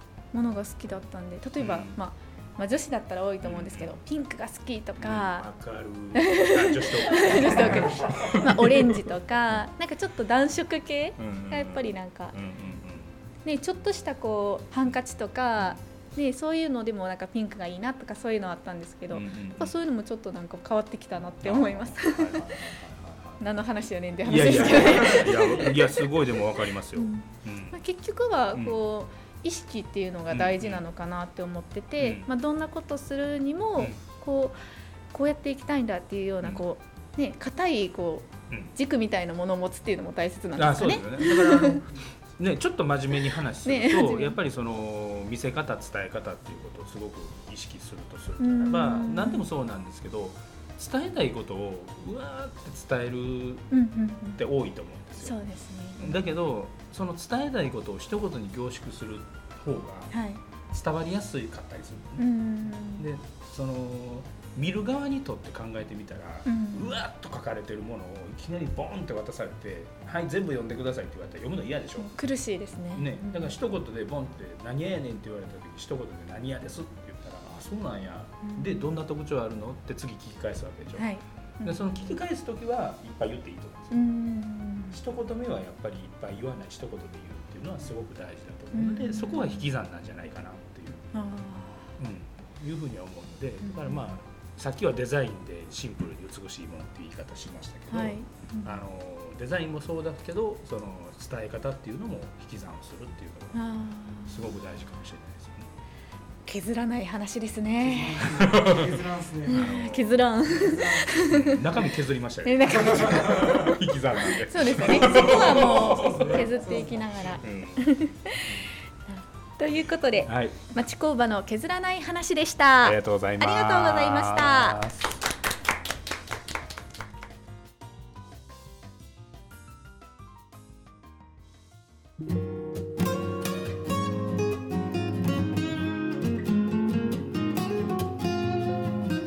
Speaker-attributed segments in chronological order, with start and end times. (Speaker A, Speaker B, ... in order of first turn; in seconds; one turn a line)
Speaker A: 0.3-5.5
Speaker B: 1.6-2.0
Speaker B: 3.4-4.0
Speaker B: 5.0-9.1
Speaker A: 6.2-12.4
Speaker B: 11.2-13.2
Speaker A: 13.4-22.7
Speaker B: 19.1-19.8
Speaker B: 21.4-23.4
Speaker A: 23.4-26.1
Speaker B: 24.2-27.8
Speaker A: 27.0-34.6
Speaker B: 30.3-30.8
Speaker B: 32.0-32.3
Speaker A: 35.1-41.9
Speaker B: 40.6-53.7
Speaker A: 43.6-44.4
Speaker A: 48.4-49.4
Speaker A: 53.7-54.4
Speaker B: 54.4-55.5
Speaker A: 55.2-56.2
Speaker B: 56.0-60.1
Speaker A: 60.1-60.4
Speaker B: 60.7-62.3
Speaker A: 62.2-63.1
Speaker B: 63.0-72.1
Speaker A: 66.5-67.0
Speaker A: 72.0-73.5
Speaker B: 72.9-81.1
Speaker A: 78.4-78.9
Speaker A: 81.0-82.2
Speaker B: 81.6-84.1
Speaker A: 83.9-85.0
Speaker B: 84.9-91.1
Speaker A: 88.7-89.7
Speaker A: 91.1-91.9
Speaker B: 92.0-103.6
Speaker A: 93.6-94.1
Speaker A: 97.9-98.8
Speaker A: 103.5-104.6
Speaker B: 104.3-105.7
Speaker A: 106.5-108.4
Speaker C: 107.8-109.8
Speaker B: 108.2-108.9
Speaker A: 109.5-111.8
Speaker B: 109.5-116.4
Speaker C: 110.5-111.1
Speaker A: 112.4-124.8
Speaker C: 115.0-117.3
Speaker B: 117.4-118.0
Speaker B: 120.3-120.6
Speaker B: 122.8-125.2